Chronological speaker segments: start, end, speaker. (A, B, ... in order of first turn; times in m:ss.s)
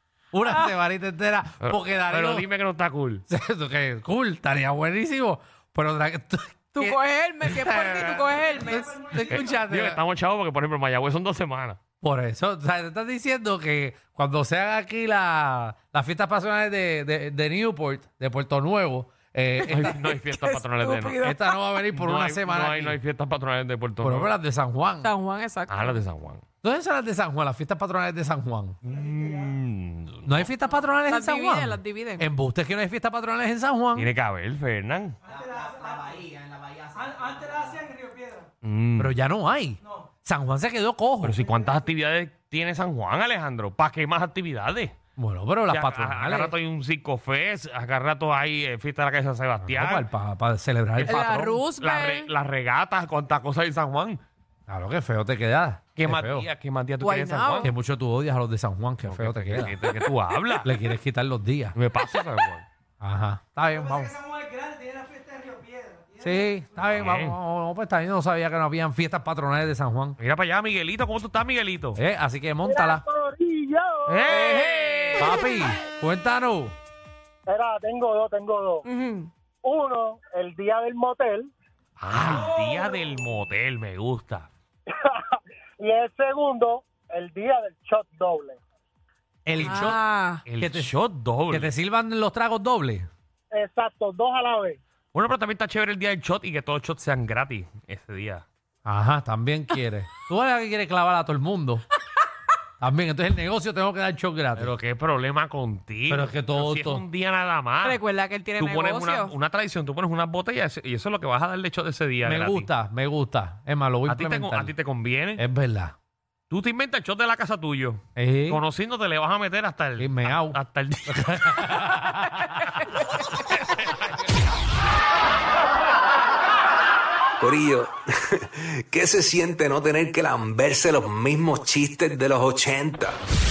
0:00.3-0:02.5 A
0:01.6-0:03.2 B
0:03.3-0:07.6 A
0:06.8-0:09.0 C
0:07.6-0:08.4 B
0:08.6-0:10.0 A
0:09.2-0:11.8 B
0:12.0-0:20.0 A
0:19.7-0:21.2 B
0:20.3-0:21.6 C
0:21.2-0:23.0 A
0:21.9-0:24.3 B
0:24.0-0:25.1 A
0:25.0-0:26.0 C
0:25.7-0:26.4 B
0:26.6-0:28.8 A
0:28.8-0:30.5 B
0:30.3-0:34.1 A
0:31.1-0:32.3 C
0:34.0-0:35.2 B
0:35.3-0:36.3 D
0:36.9-0:38.4 D
0:38.6-0:39.2 B
0:39.0-0:41.4 A
0:41.2-0:44.9 B
0:45.2-0:46.6 A
0:45.7-0:50.1 B
0:49.6-0:51.6 A
0:51.0-0:54.2 B
0:51.0-0:52.3 C
0:54.7-0:56.5 A
0:56.0-0:57.7 B
0:57.0-0:57.7 C
0:57.6-0:59.8 A
0:59.1-1:00.7 B
1:00.6-1:01.8 A
1:01.8-1:02.7 B
1:03.0-1:04.2 A
1:04.4-1:05.4 D
1:06.2-1:10.2 A
1:06.9-1:07.4 B
1:10.2-1:12.0 B
1:12.0-1:13.0 A
1:12.6-1:14.5 E
1:14.1-1:15.5 B
1:14.4-1:15.1 C
1:15.2-1:16.8 A
1:17.5-1:18.8 E
1:18.8-1:19.3 C
1:19.6-1:21.5 E
1:22.0-1:24.5 B
1:25.8-1:28.6 E
1:29.4-1:30.0 A
1:29.6-1:30.4 C
1:29.6-1:29.9 B
1:30.5-1:31.7 B
1:30.6-1:33.1 A
1:33.5-1:34.8 E
1:35.1-1:38.4 B
1:38.8-1:41.9 A
1:42.8-1:44.7 A
1:44.6-1:48.0 B
1:46.1-1:47.0 A
1:47.8-1:49.3 C
1:48.6-1:52.7 B
1:52.2-1:54.7 A
1:54.1-1:55.4 B
1:55.4-1:55.9 A
1:56.5-2:01.8 B
1:58.2-1:58.6 A
2:00.0-2:02.8 A
2:03.6-2:04.1 B
2:07.4-2:13.2 F